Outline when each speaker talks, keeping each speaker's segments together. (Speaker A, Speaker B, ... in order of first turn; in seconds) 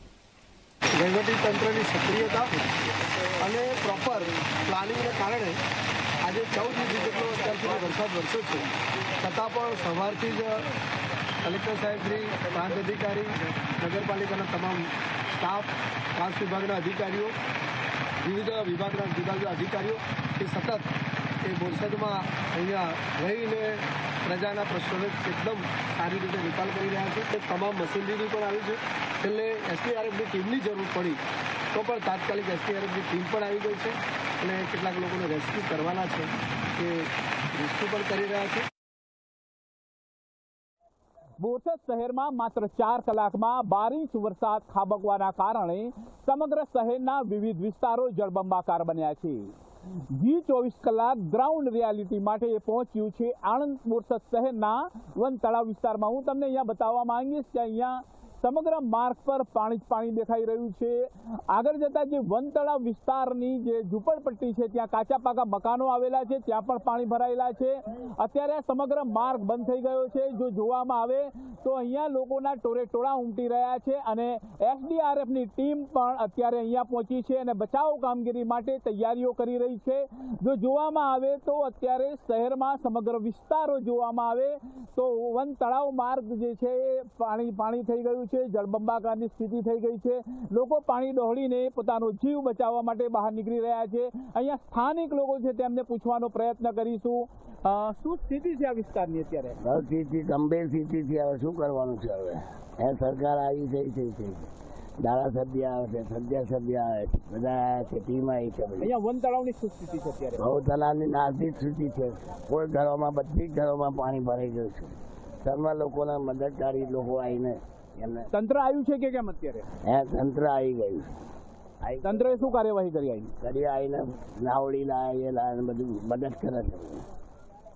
Speaker A: 0.9-2.5, 3.4-5.6, 6.2-10.7, 11.4-17.4, 18.2-20.9, 21.4-31.2, 31.7-38.7
Speaker B: 41.4-49.5, 50.1-99.6, 108.8-110.4, 118.3-119.7, 122.0-123.3
Speaker C: 99.6-108.9, 110.4-118.3, 119.8-121.2, 121.8-122.5, 123.3-127.1